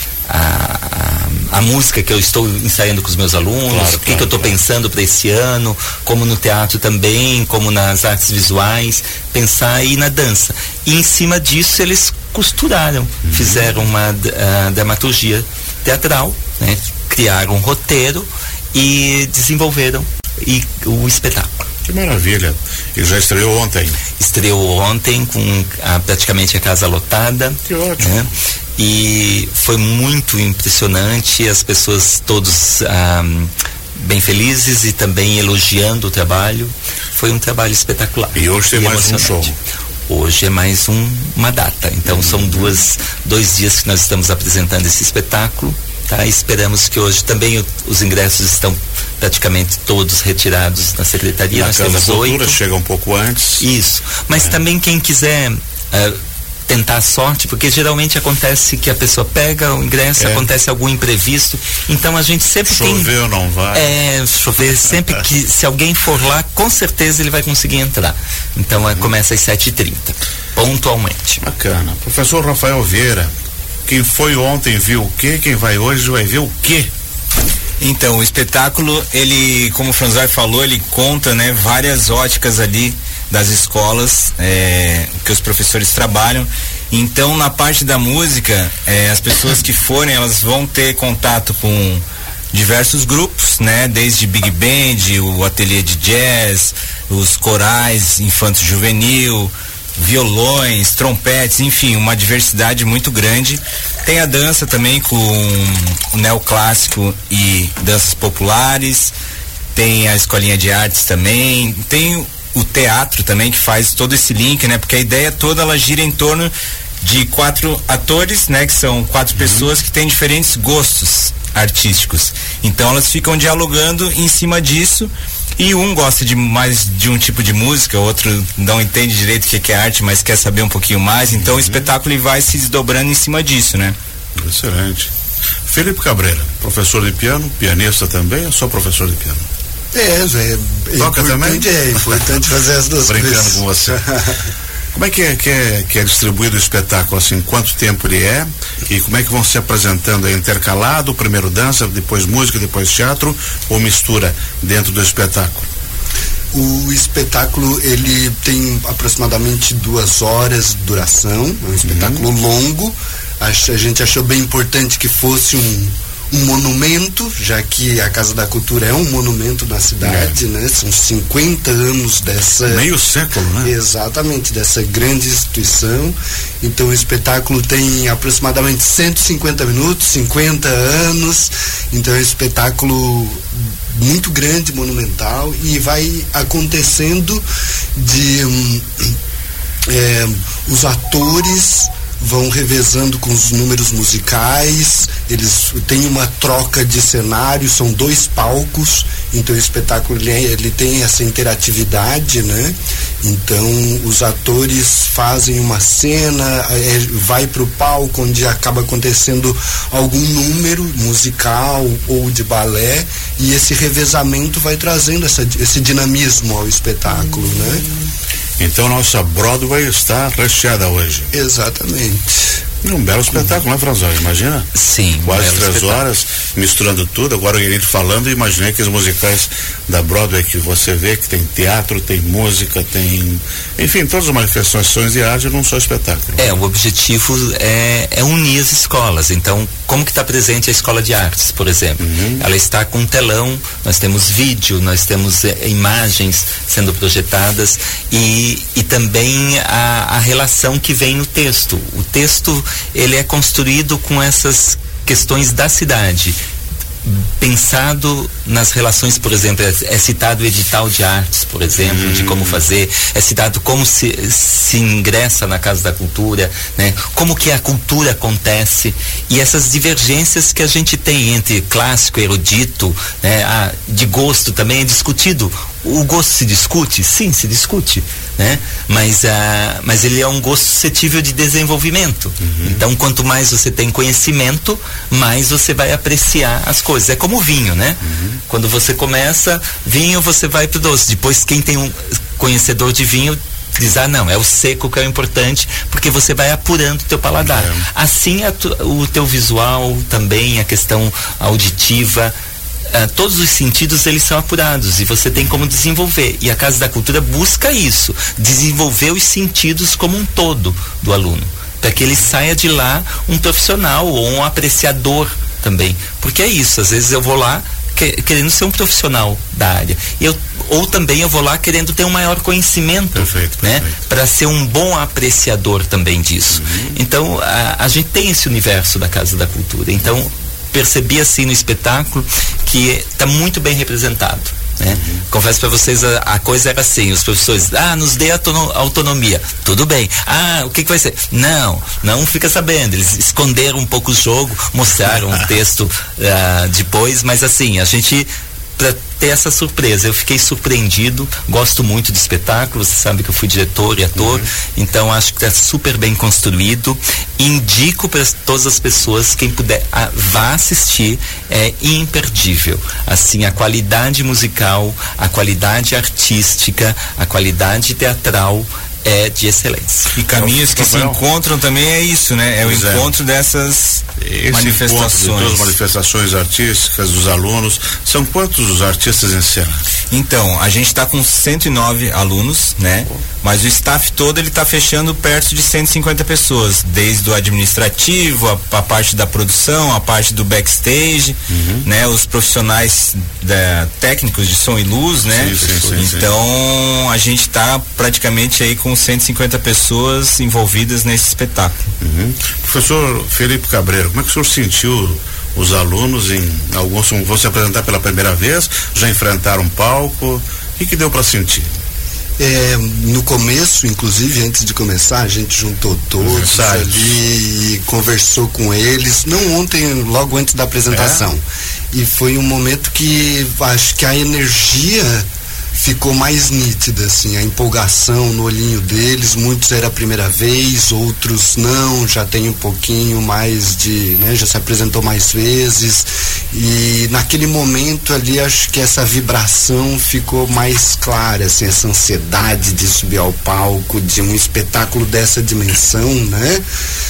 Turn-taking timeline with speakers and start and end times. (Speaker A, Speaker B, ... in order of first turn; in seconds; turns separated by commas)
Speaker A: 0.3-21.7, Speaker B: 3.7-4.6, Speaker B: 13.2-13.7, Speaker B: 21.9-24.0, Speaker A: 24.2-39.5, Speaker B: 27.7-28.2, Speaker B: 38.4-39.5, Speaker A: 40.1-52.6, Speaker B: 42.0-42.7, Speaker B: 51.5-53.6, Speaker A: 53.6-63.1, Speaker B: 60.2-60.5, Speaker B: 62.7-63.9, Speaker A: 63.7-71.4, Speaker B: 71.4-73.3, Speaker B: 73.8-76.9, Speaker C: 77.8-109.1, Speaker C: 109.7-133.9, Speaker B: 119.3-119.7, Speaker B: 131.3-131.9, Speaker B: 134.3-135.1, Speaker B: 135.7-139.4, Speaker D: 139.9-144.4, Speaker B: 141.0-142.2, Speaker B: 143.1-144.0, Speaker B: 144.9-155.7, Speaker D: 156.5-172.9, Speaker B: 161.8-162.2, Speaker B: 170.0-170.4, Speaker B: 172.7-173.7, Speaker D: 173.6-187.4, Speaker D: 187.9-189.1, Speaker D: 189.9-217.9, Speaker B: 218.6-221.3, Speaker D: 221.3-222.5, Speaker B: 222.8-224.7, Speaker A: 224.7-226.0, Speaker B: 225.2-236.4, Speaker A: 236.4-256.4, Speaker B: 242.0-242.4, Speaker A: 257.0-302.3, Speaker B: 261.8-262.6, Speaker B: 282.5-282.8, Speaker B: 288.1-288.4, Speaker B: 297.4-297.8, Speaker A: 302.9-370.1, Speaker B: 323.1-323.9, Speaker B: 326.5-326.9, Speaker B: 334.9-335.2, Speaker B: 354.2-354.4, Speaker C: 370.1-375.7, Speaker B: 370.3-371.2, Speaker B: 372.6-373.1, Speaker B: 374.2-379.8, Speaker C: 380.1-401.9, Speaker B: 391.5-391.9, Speaker B: 395.3-396.3, Speaker A: 395.7-395.9, Speaker B: 402.0-411.7, Speaker D: 412.4-446.6, Speaker B: 416.2-417.2, Speaker B: 420.9-421.3